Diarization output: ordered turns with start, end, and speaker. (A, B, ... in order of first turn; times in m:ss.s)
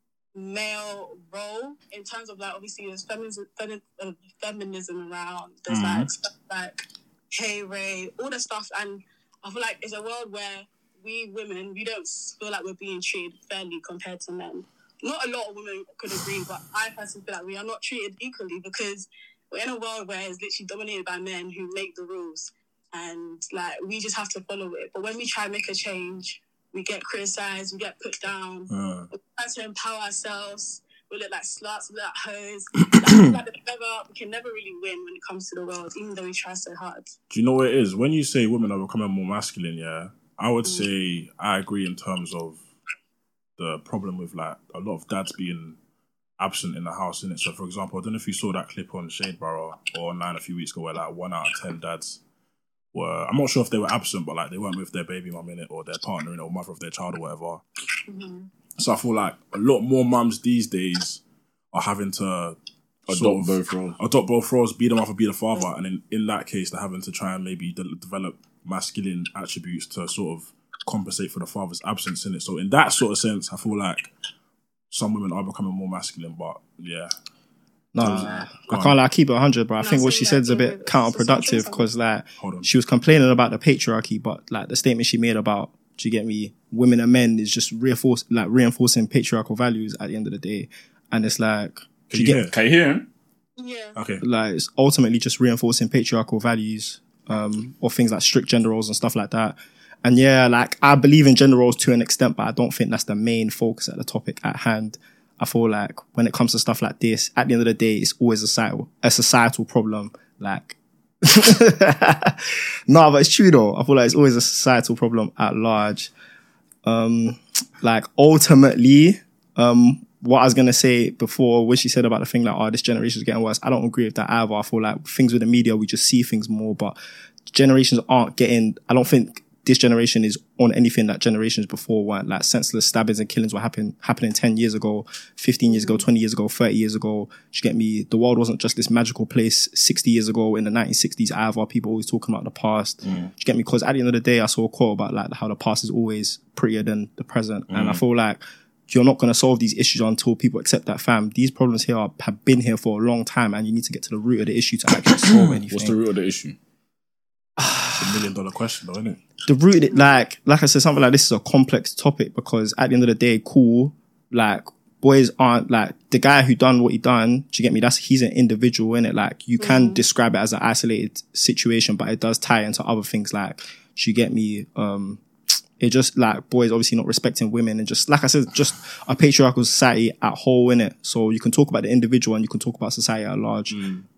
0:00.3-0:37.1 A
0:05.7-0:06.1 B
0:28.7-0:29.1 B
0:32.8-0:33.3 B
0:37.3-0:42.6 B
0:40.6-0:40.9 A
0:43.6-0:45.8 B
0:46.4-0:52.2 B
0:52.9-0:57.6 B
0:58.1-0:58.5 A
0:58.8-1:01.2 B
1:01.7-1:02.6 B
1:03.1-1:04.0 C
1:03.1-1:14.1 B
1:14.9-1:17.1 B
1:17.9-1:32.4 D
1:18.0-1:19.0 B
1:18.2-1:18.4 A
1:19.8-1:21.8 A
1:22.4-1:22.7 B
1:32.1-1:32.5 B
1:32.4-1:33.1 C
1:33.6-1:34.0 A
1:34.0-1:34.2 B
1:34.2-1:56.1 D
1:56.8-2:07.0 D
2:07.5-2:36.0 D
2:15.7-2:16.0 A
2:23.0-2:23.3 B
2:27.7-2:28.0 B
2:35.7-2:36.6 C
2:37.6-2:38.3 D
2:38.0-2:39.2 B
2:39.4-2:55.2 D
2:49.6-2:50.0 A
2:55.8-3:03.8 D
3:03.7-3:04.0 B